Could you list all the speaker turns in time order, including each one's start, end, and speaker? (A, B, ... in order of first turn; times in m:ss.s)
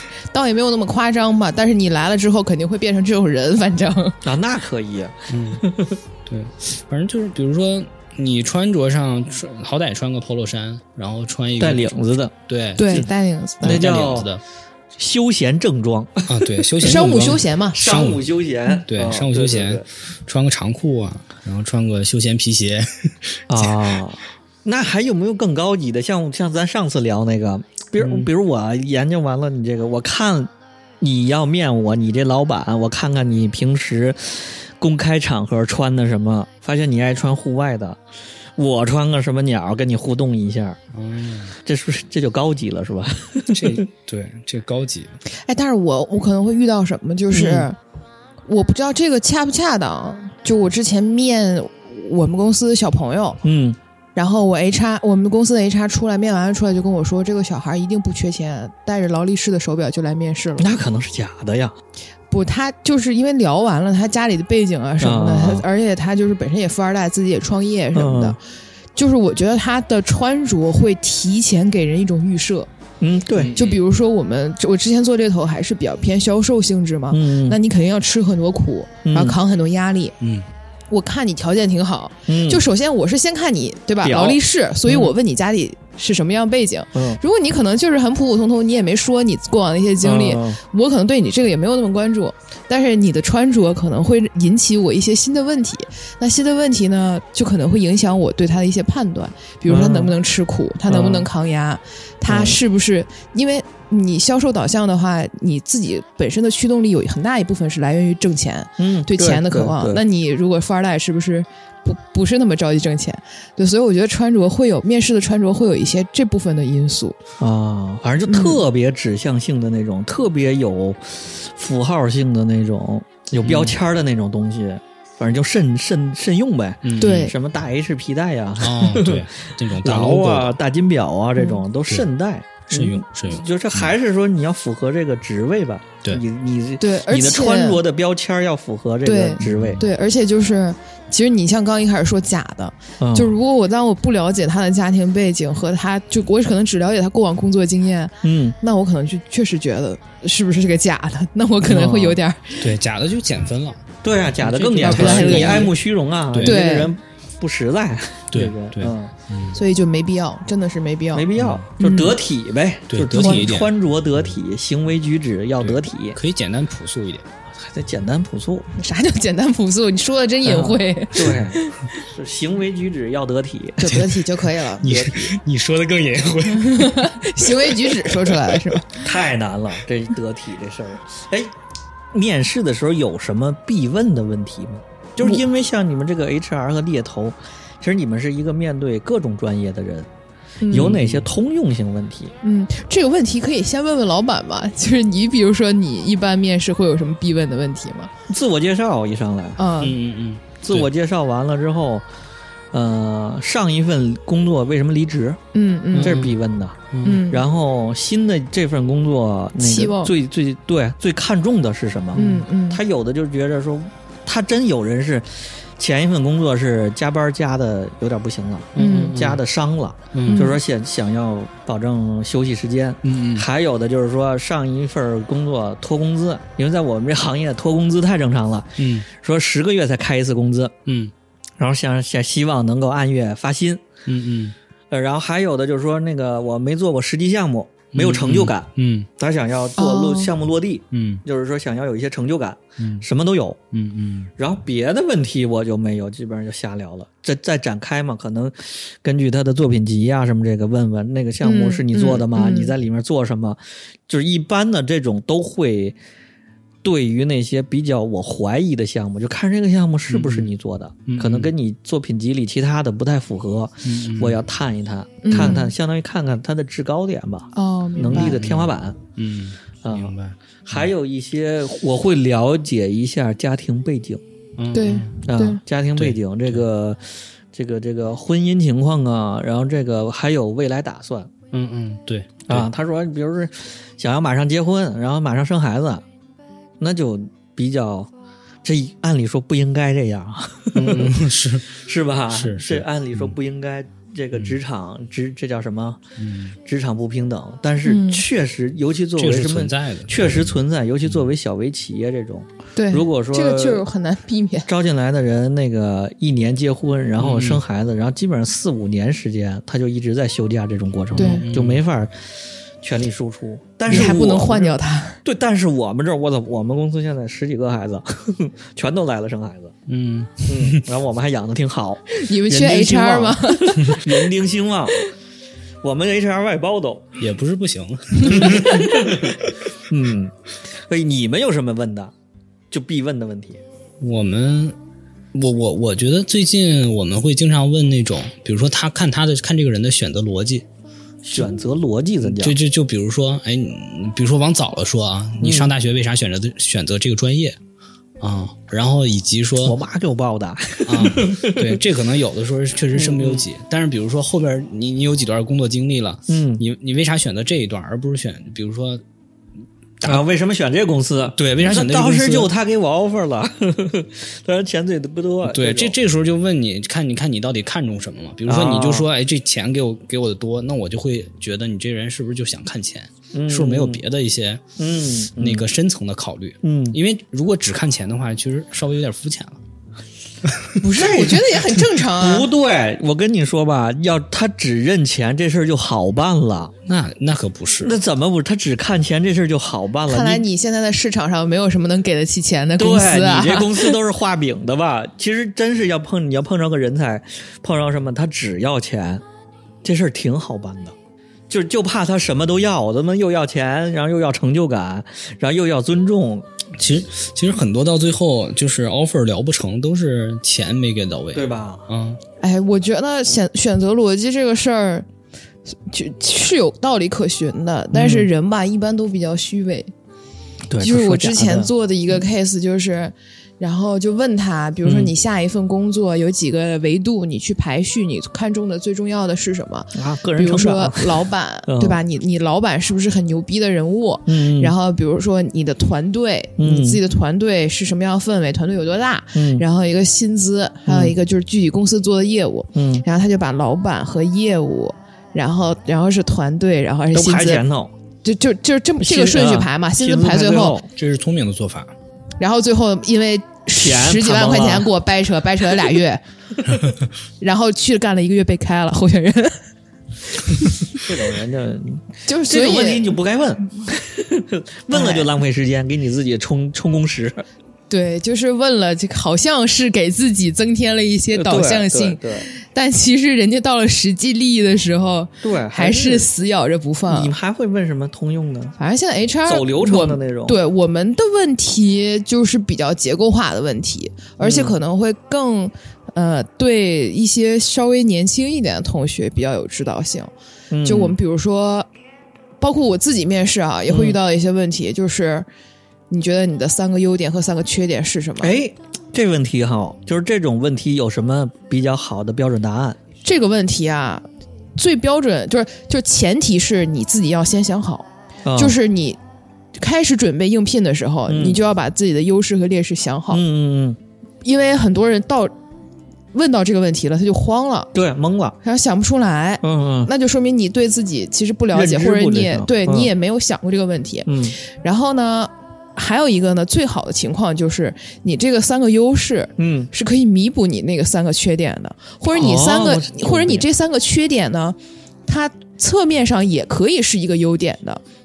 0:00.3-0:04.2 A
0:04.2-0:06.0 B
0:05.3-0:05.6 C
0:06.2-0:11.9 C
0:11.6-0:12.3 B
0:12.5-0:13.0 C
0:12.8-0:13.8 A
0:13.6-0:14.3 B
0:13.6-0:14.4 C
0:15.0-0:19.8 B
0:16.3-0:18.2 C
0:16.8-0:17.8 A
0:18.8-0:23.8 C
0:23.5-0:38.0 B
0:28.0-0:28.3 C
0:38.6-0:40.8 B
0:40.9-0:41.6 C
0:41.6-0:43.8 B
0:43.5-0:45.2 C
0:45.4-0:47.8 A
0:47.3-0:47.7 B
0:48.4-0:53.4 A
0:53.4-0:53.8 B
0:54.2-1:00.7 A
1:00.6-1:01.8 B
1:02.3-1:08.4 A
1:05.0-1:05.6 B
1:07.9-1:08.4 B
1:08.9-1:12.7 A
1:13.0-1:13.6 B
1:13.3-1:13.8 C
1:13.5-1:20.2 A
1:17.1-1:17.6 B
1:19.0-1:19.4 B
1:20.2-1:20.4 C
1:20.9-1:57.2 A
1:22.3-1:22.6 B
1:24.0-1:25.1 B
1:26.9-1:27.2 B
1:30.0-1:30.6 B
1:39.6-1:40.2 B
1:40.9-1:41.3 B
1:42.2-1:42.6 B
1:48.8-1:50.0 B
1:57.4-2:19.8 B
1:58.3-1:58.6 A
2:03.4-2:03.7 C
2:06.8-2:07.2 C
2:07.0-2:07.3 A
2:08.6-2:10.6 C
2:12.7-2:13.9 C
2:16.8-2:17.8 A
2:19.0-2:32.6 A
2:19.4-2:19.8 C
2:23.0-2:23.4 B
2:28.2-2:28.6 B
2:31.6-2:32.2 B
2:32.6-2:33.8 C
2:34.0-2:39.1 B
2:34.4-2:35.7 C
2:34.8-2:35.7 A
2:36.3-2:36.6 C
2:36.4-2:36.9 A
2:38.3-2:39.6 C
2:39.5-2:41.3 A
2:41.1-2:46.2 B
2:41.4-2:41.7 C
2:41.8-2:42.2 A
2:42.9-2:43.7 C
2:45.6-2:47.2 C
2:47.5-2:48.7 B
2:48.8-2:51.8 A
2:50.4-2:54.0 B
2:53.8-2:54.9 A
2:53.9-2:58.4 C
2:54.8-2:55.3 B
2:56.5-2:59.0 A
2:59.0-3:01.5 B
3:02.1-3:10.1 B
3:10.6-3:11.0 A
3:10.7-3:12.3 B
3:10.7-3:11.2 C
3:12.4-3:18.1 A
3:18.3-3:19.6 B
3:19.6-3:20.0 A
3:19.8-3:20.9 C
3:20.6-3:22.0 B
3:22.7-3:25.4 B
3:25.5-3:26.2 A
3:25.9-3:26.4 C
3:26.0-3:50.7 B
3:26.9-3:27.2 C
3:27.0-3:27.4 A
3:29.6-3:30.1 A
3:32.1-3:32.8 A
3:32.2-3:32.4 C
3:38.8-3:39.4 C
3:38.8-3:39.2 A
3:40.1-3:40.5 C
3:40.3-3:40.6 A
3:43.0-3:43.5 C
3:48.8-3:49.1 C
3:50.8-3:51.1 C
3:51.6-3:53.8 B
3:54.0-3:54.5 C
3:54.9-4:03.6 B
3:57.9-3:59.1 C
3:59.8-4:00.3 A
4:00.9-4:01.2 C
4:02.8-4:03.0 C
4:03.7-4:04.3 C
4:04.4-4:16.0 B
4:11.4-4:12.7 A
4:16.8-4:29.0 B
4:20.1-4:20.5 C
4:21.0-4:21.5 C
4:23.8-4:24.4 C
4:25.2-4:25.7 A
4:27.5-4:28.4 A
4:28.0-4:30.9 C
4:29.8-4:30.1 B
4:30.6-4:34.2 B
4:34.6-4:35.2 C
4:34.7-4:35.6 A
4:35.2-4:41.3 B
4:36.0-4:36.6 C
4:41.5-4:42.7 C
4:42.5-4:46.0 B
4:46.8-4:48.1 B
4:48.6-4:51.2 B
4:50.7-4:53.3 C
4:51.8-4:56.0 B
4:56.2-4:56.5 C
4:56.6-5:03.8 B
4:57.8-4:58.2 A
4:59.2-5:00.5 C
5:02.8-5:04.7 A
5:04.7-5:12.2 B
5:07.2-5:07.6 C
5:11.1-5:11.8 C
5:11.2-5:11.4 A
5:12.8-5:19.7 B
5:13.9-5:15.2 A
5:19.9-5:20.8 C
5:20.5-5:25.0 B
5:22.1-5:24.2 A
5:25.8-5:27.2 B
5:27.2-5:29.5 C
5:28.2-5:32.1 B
5:32.7-5:33.6 B
5:34.0-5:34.8 C
5:35.3-5:40.6 C
5:41.2-5:42.6 B
5:42.2-5:47.6 C
5:45.4-5:45.7 B
5:48.2-5:49.8 C
5:49.6-5:51.8 B
5:50.8-5:59.0 C
5:52.9-5:53.4 B
5:56.3-5:56.6 B
6:00.0-6:05.9 B
6:01.4-6:02.5 C
6:05.4-6:14.6 C
6:08.4-6:09.1 B
6:13.3-6:14.0 B
6:14.8-6:15.6 B
6:15.4-6:19.6 C
6:16.6-6:17.0 B
6:20.4-6:20.8 C
6:20.8-6:22.5 A
6:20.9-6:26.7 B
6:26.8-6:28.0 C
6:27.8-6:30.4 B
6:30.1-6:34.0 A
6:32.8-6:39.2 B
6:39.8-6:40.9 B
6:41.5-6:46.5 B
6:46.8-6:52.2 C
6:51.3-6:51.9 B
6:52.4-6:55.0 A
6:55.7-6:59.9 A
6:57.9-6:58.3 B
7:00.7-7:01.7 B
7:00.8-7:27.6 A
7:04.8-7:05.1 B
7:09.9-7:12.0 B
7:14.3-7:14.7 B
7:16.6-7:17.0 B
7:19.3-7:19.6 B
7:20.8-7:21.2 B
7:22.7-7:23.0 B
7:27.1-7:27.9 B
7:28.2-7:30.8 A
7:29.0-7:30.9 B
7:30.9-7:31.9 C
7:32.4-7:36.2 A
7:33.8-7:34.9 B
7:37.4-7:39.6 A
7:41.0-7:47.4 B
7:42.2-7:43.1 A
7:44.9-7:45.3 A
7:47.9-7:57.3 A
7:51.3-7:52.5 B
7:55.4-7:56.3 B
7:57.1-7:58.8 B
7:58.8-8:10.3 A
7:59.4-8:00.6 B
8:04.4-8:04.8 B
8:10.7-8:11.2 B
8:10.8-8:11.9 A
8:12.6-8:15.5 A
8:13.9-8:14.2 B
8:16.1-8:18.6 A
8:18.4-8:23.0 B
8:23.2-8:24.2 A
8:24.8-8:29.2 A
8:28.4-8:28.8 B
8:29.7-8:33.4 A
8:31.3-8:31.6 B
8:33.3-8:34.0 B
8:34.4-8:35.5 A
8:36.3-8:37.9 A
8:37.9-8:38.6 B
8:38.6-8:58.0 A
8:39.6-8:40.1 B
8:41.7-8:43.1 B
8:44.2-8:44.6 B
8:49.6-8:49.9 B
8:52.3-8:53.6 B